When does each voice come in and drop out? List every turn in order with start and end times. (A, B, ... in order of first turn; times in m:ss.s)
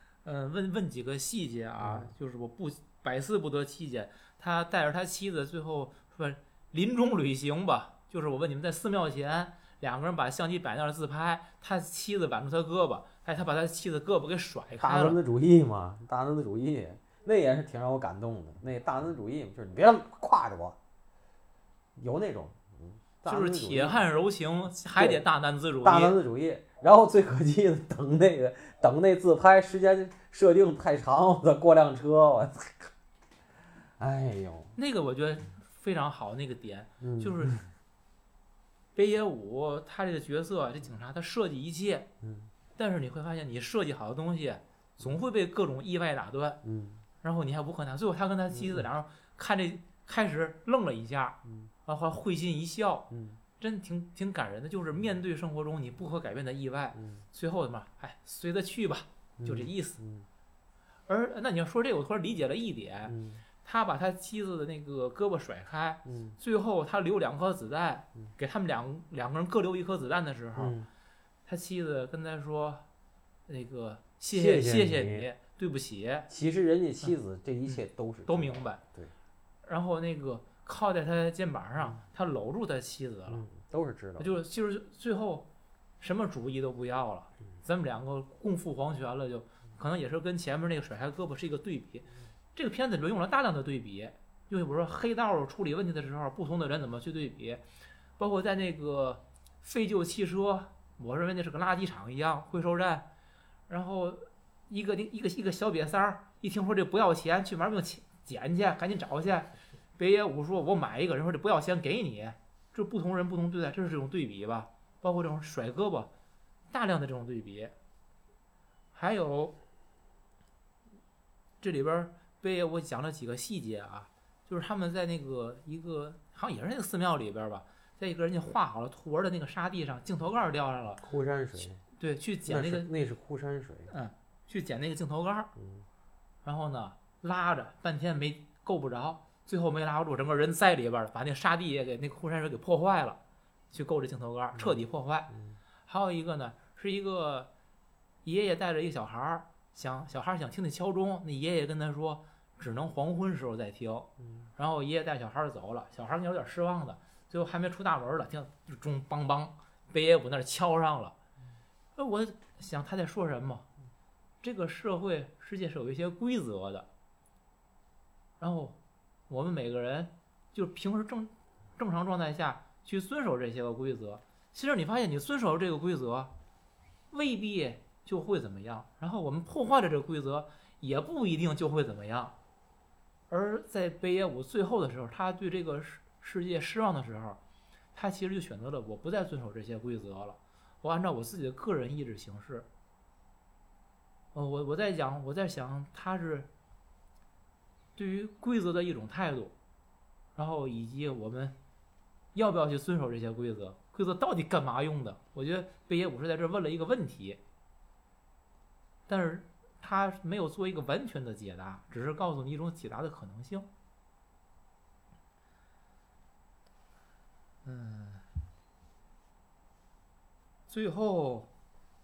0:00.2-0:15.2 A
0:01.8-0:02.1 B
0:14.8-0:20.8 B
0:22.0-0:24.1 B
0:23.2-0:26.2 A
0:25.0-0:25.2 B
0:25.8-0:32.9 B
0:34.0-0:34.7 B
0:34.8-0:37.6 A
0:37.0-0:37.6 B
0:38.9-0:42.1 A
0:42.2-0:42.5 B
0:42.7-0:46.6 A
0:46.6-0:47.0 B
0:47.2-1:00.0 A
0:48.5-0:48.8 B
0:53.1-0:53.4 B
0:56.9-0:57.2 B
0:59.4-1:00.2 B
1:01.1-1:10.8 A
1:03.0-1:03.4 B
1:06.0-1:06.4 B
1:10.6-1:10.9 B
1:11.5-1:12.8 A
1:13.5-1:16.3 A
1:14.3-1:15.3 B
1:16.3-1:19.1 B
1:17.6-1:18.8 A
1:19.6-1:23.4 A
1:23.3-1:24.3 B
1:24.2-1:25.5 A
1:26.0-1:37.6 A
1:38.2-1:43.1 A
1:43.7-1:56.1 A
1:56.7-1:57.7 A
1:58.9-1:59.6 A
2:01.6-2:11.0 A
2:11.0-2:11.8 B
2:12.0-2:12.9 A
2:12.5-2:13.9 B
2:13.9-2:15.5 A
2:15.6-2:15.8 B
2:16.4-2:23.2 A
2:23.7-2:25.3 A
2:25.3-2:25.6 B
2:25.8-2:27.5 A
2:28.2-2:41.2 A
2:42.0-2:43.7 A
2:44.4-2:46.9 A
2:48.4-2:48.8 A
2:49.3-2:56.3 A
2:57.1-3:02.4 A
3:03.3-3:07.4 A
3:07.9-3:12.7 A
3:14.3-3:16.5 A
3:18.0-3:19.5 A
3:20.3-3:21.6 A
3:22.3-3:27.4 A
3:29.1-3:33.7 A
3:37.6-3:38.2 A
3:40.7-3:41.5 A